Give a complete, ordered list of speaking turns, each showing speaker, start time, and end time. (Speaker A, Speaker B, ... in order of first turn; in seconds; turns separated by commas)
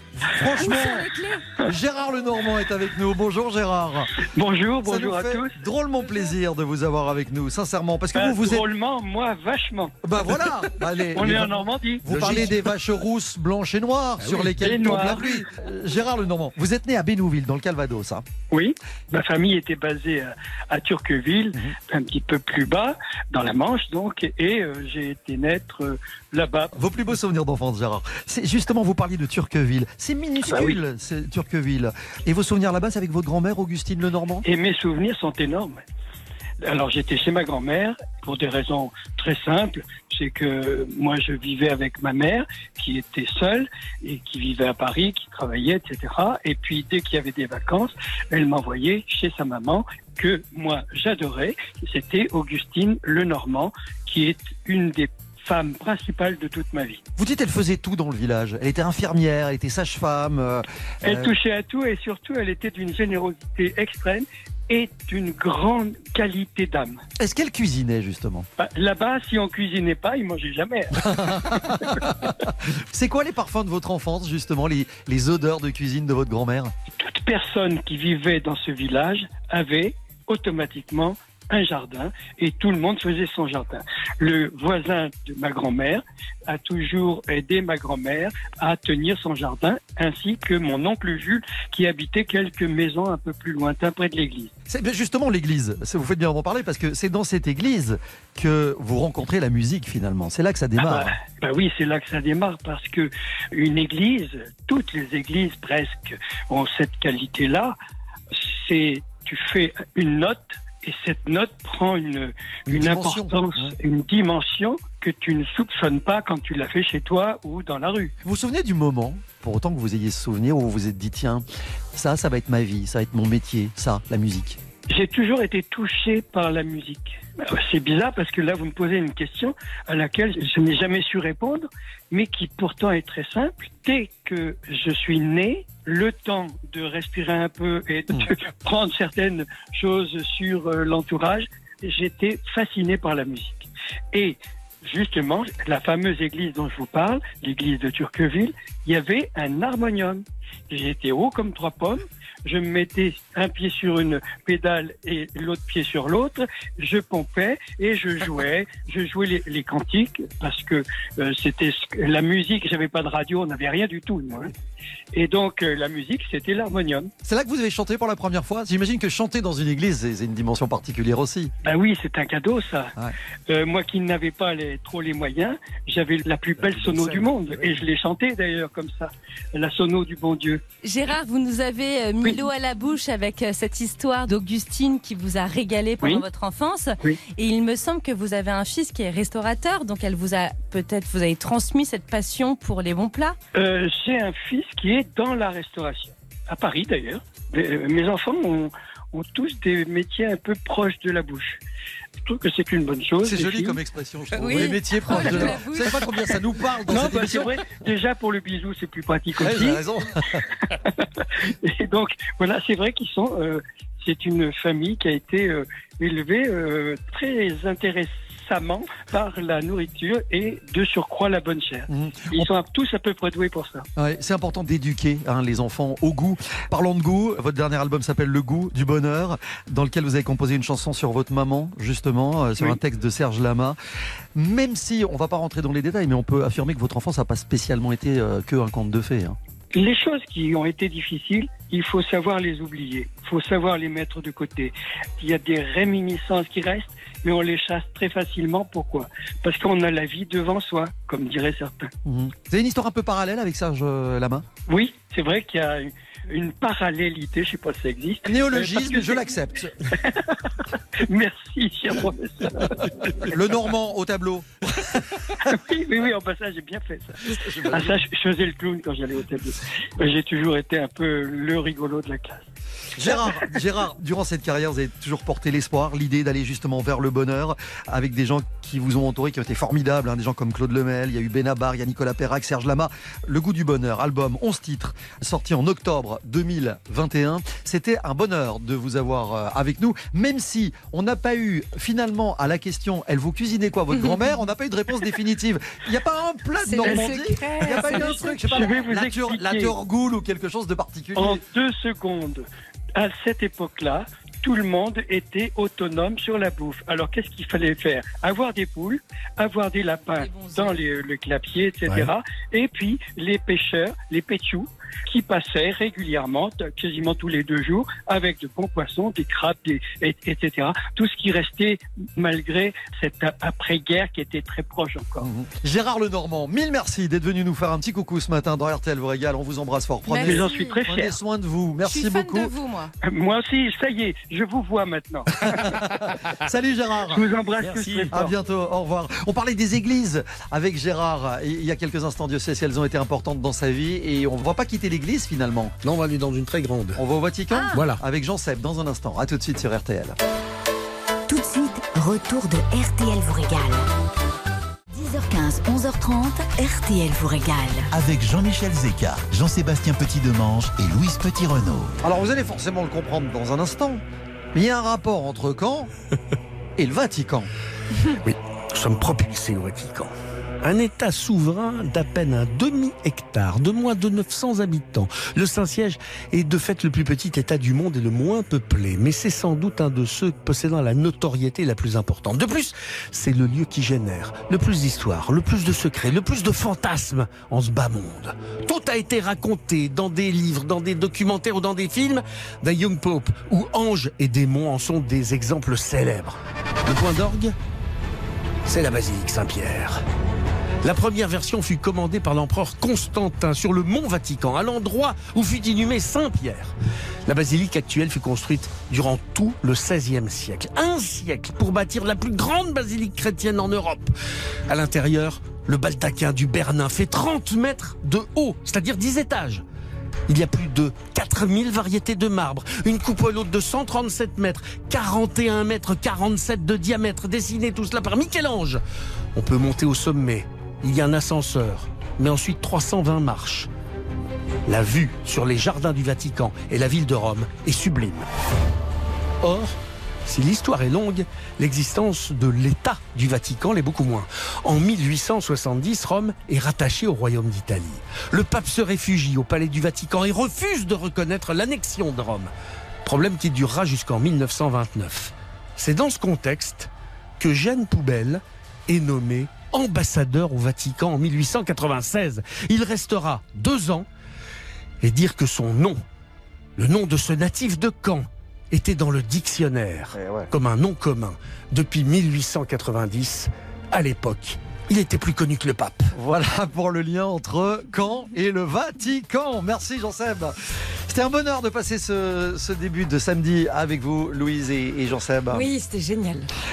Speaker A: 0.1-1.1, Speaker B: 0.6-1.4, Speaker A: 1.6-4.1, Speaker C: 4.2-5.5, Speaker A: 4.8-8.6, Speaker C: 8.1-10.0, Speaker A: 10.0-18.2, Speaker C: 11.1-12.0, Speaker D: 12.1-12.7, Speaker D: 14.2-15.4, Speaker C: 14.6-15.3, Speaker C: 18.5-26.7, Speaker A: 26.7-34.5, Speaker C: 30.4-30.8, Speaker C: 34.4-35.8, Speaker C: 36.6-57.0, Speaker A: 57.2-61.3, Speaker C: 61.0-67.0, Speaker A: 67.2-68.5, Speaker C: 68.6-72.0, Speaker A: 70.9-76.7, Speaker C: 77.0-94.5, Speaker A: 94.7-101.1, Speaker C: 100.8-107.7, Speaker C: 108.3-118.1, Speaker A: 112.7-113.7, Speaker A: 118.2-124.6, Speaker C: 124.9-164.5, Speaker C: 165.1-167.1, Speaker A: 167.2-171.5, Speaker C: 171.6-172.9, Speaker C: 173.5-180.6, Speaker D: 176.6-177.8, Speaker B: 180.8-193.4, Speaker C: 193.5-201.6, Speaker C: 202.2-203.8, Speaker A: 203.2-207.6, Speaker B: 204.3-206.1, Speaker C: 206.8-209.8, Speaker A: 209.4-210.4, Speaker C: 210.8-223.8, Speaker A: 221.9-222.5, Speaker A: 224.0-233.8, Speaker A: 234.3-239.4, Speaker C: 239.7-251.9, Speaker A: 252.0-254.4, Speaker C: 254.7-259.3, Speaker A: 258.2-259.9, Speaker C: 259.9-260.4, Speaker C: 260.9-262.9, Speaker A: 263.2-265.5, Speaker C: 265.4-272.5, Speaker A: 267.2-268.0, Speaker A: 272.9-301.4, Speaker B: 296.6-298.7, Speaker C: 296.8-299.8, Speaker C: 301.1-325.3, Speaker B: 310.2-310.8, Speaker A: 325.2-332.5, Speaker B: 330.1-330.8, Speaker C: 330.2-331.2, Speaker B: 331.8-332.9, Speaker C: 333.0-335.7, Speaker A: 335.6-337.3, Speaker C: 337.1-338.3, Speaker D: 337.6-338.3, Speaker A: 338.1-345.7, Speaker D: 345.8-347.0, Speaker A: 346.9-350.2, Speaker B: 347.5-347.8, Speaker D: 347.7-348.0, Speaker E: 351.3-353.9, Speaker E: 354.9-357.9, Speaker F: 357.9-361.9, Speaker A: 362.0-364.0, Speaker A: 364.5-365.9, Speaker A: 366.8-367.5, Speaker D: 368.2-397.5, Speaker D: 398.6-400.0, Speaker D: 400.8-406.7, Speaker D: 407.2-414.1, Speaker D: 414.7-419.6, Speaker D: 420.3-428.8, Speaker D: 429.3-433.7, Speaker D: 434.6-438.3, Speaker D: 439.4-439.7, Speaker D: 440.2-452.5, Speaker D: 453.0-464.1, Speaker D: 465.0-466.0, Speaker D: 466.8-476.1, Speaker A: 470.1-470.5, Speaker A: 476.1-480.5, Speaker A: 481.1-485.7, Speaker B: 485.5-486.5